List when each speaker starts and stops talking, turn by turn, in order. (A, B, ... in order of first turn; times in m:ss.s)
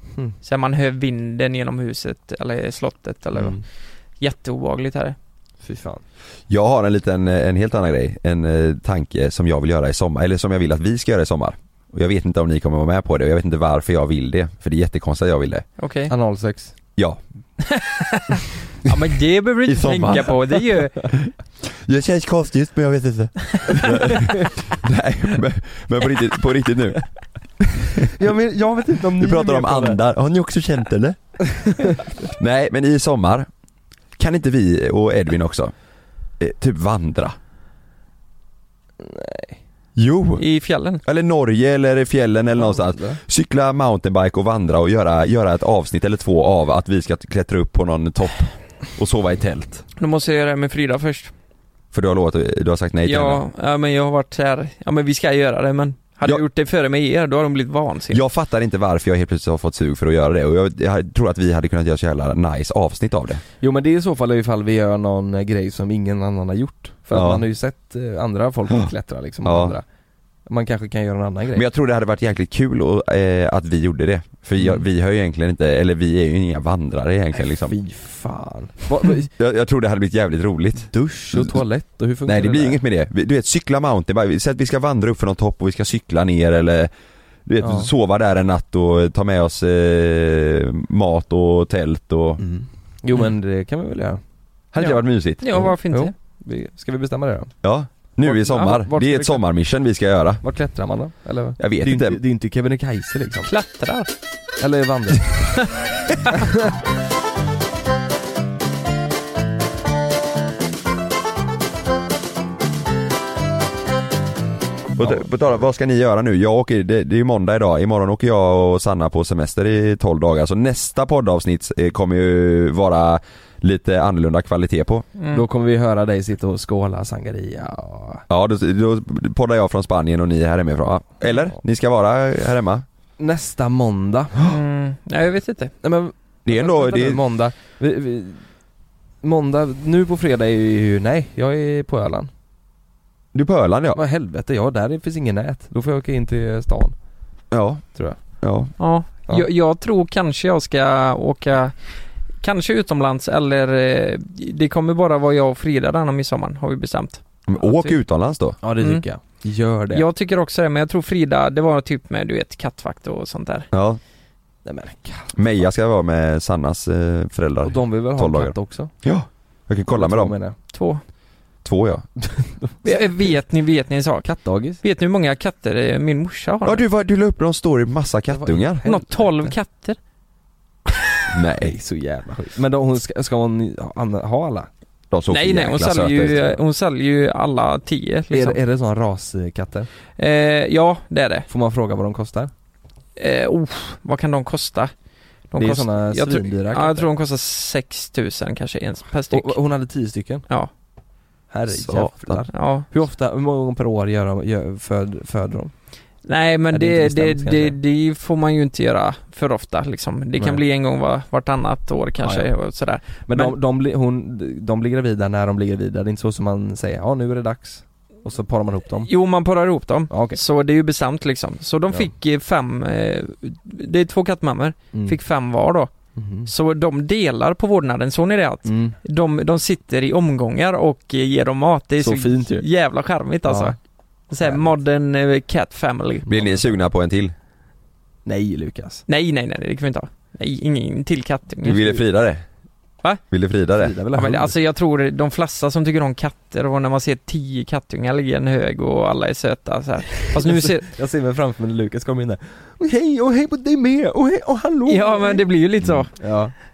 0:00.4-0:03.7 A
0:03.3-0:03.6 B
0:04.2-0:05.2 A
0:05.6-0:06.0 B
0:06.5-0:15.6 C
0:15.8-0:16.1 A
0:16.1-0:16.7 B
0:17.7-0:21.2 A
0:19.7-0:20.4 C
0:21.8-0:27.1 C
0:28.1-0:30.0 B
0:29.1-0:31.4 C
0:32.4-0:33.5 C
0:34.2-0:35.7 C
0:36.4-0:37.4 C
0:39.0-0:39.6 B
0:40.0-0:40.4 C
0:40.4-0:41.0 A
0:41.0-0:49.9 C
0:42.6-0:43.2 B
0:50.0-0:51.3 A
0:51.9-0:53.4 C
0:53.0-0:58.2 A
0:58.1-1:03.4 C
1:03.6-1:09.8 B
1:07.1-1:07.4 C
1:09.4-1:09.8 C
1:10.5-1:11.6 B
1:11.6-1:17.8 C
1:14.6-1:14.8 B
1:17.4-1:19.3 B
1:19.4-1:21.5 C
1:20.9-1:22.8 B
1:22.3-1:26.9 C
1:27.5-1:32.4 C
1:27.6-1:27.9 B
1:32.4-1:34.2 B
1:34.7-1:35.4 C
1:34.8-1:36.1 A
1:35.5-1:37.5 B
1:37.6-1:40.4 C
1:38.3-1:39.4 B
1:40.4-1:43.5 B
1:41.6-1:42.2 C
1:43.5-1:44.1 A
1:44.6-1:45.5 B
1:55.0-2:05.1 C
2:05.2-2:05.4 A
2:05.3-2:08.2 B
2:08.3-2:12.8 C
2:13.2-2:14.4 B
2:14.4-2:15.7 A
2:15.8-2:18.5 B
2:16.5-2:17.2 C
2:19.2-2:22.3 B
2:23.3-2:24.0 C
2:23.9-2:27.0 B
2:27.5-2:28.7 C
2:28.8-2:38.0 A
2:37.5-2:38.6 C
2:38.6-2:40.0 B
2:38.8-2:39.0 A
2:39.9-2:43.7 A
2:43.7-2:44.0 C
2:44.6-2:45.6 B
2:45.3-2:50.4 C
2:47.6-2:48.9 B
2:49.9-2:50.6 B
2:50.7-2:51.0 A
2:51.6-2:52.1 C
2:52.2-2:53.2 B
2:52.8-2:56.8 A
2:54.2-2:54.8 B
2:56.6-2:58.8 C
2:58.3-2:59.6 B
2:58.8-3:00.0 A
3:01.3-3:01.8 C
3:01.6-3:04.7 B
3:05.1-3:06.5 C
3:05.3-3:08.6 A
3:08.3-3:09.9 B
3:10.2-3:11.5 A
3:11.5-3:12.5 B
3:13.2-3:14.9 A
3:15.5-3:19.6 A
3:15.6-3:17.1 B
3:19.3-3:20.5 B
3:21.5-3:25.7 B
3:21.7-3:22.5 C
3:22.5-3:22.9 A
3:26.2-3:33.6 A
3:26.7-3:27.8 B
3:30.4-3:30.6 B
3:32.2-3:32.5 B
3:33.3-3:39.1 B
3:39.1-3:45.9 A
3:40.1-3:40.4 B
3:46.2-3:46.5 B
3:46.5-3:53.8 A
3:48.6-3:49.0 B
3:52.0-3:52.6 B
3:53.5-3:53.8 B
3:54.3-3:56.3 A
3:54.4-3:54.8 B
3:56.3-3:57.3 C
3:56.3-3:56.6 B
3:58.2-3:59.0 B
3:59.1-4:02.0 A
4:01.6-4:02.4 C
4:03.3-4:03.9 C
4:03.8-4:04.5 B
4:04.1-4:10.9 A
4:10.4-4:15.4 B
4:14.9-4:16.3 A
4:16.1-4:16.5 B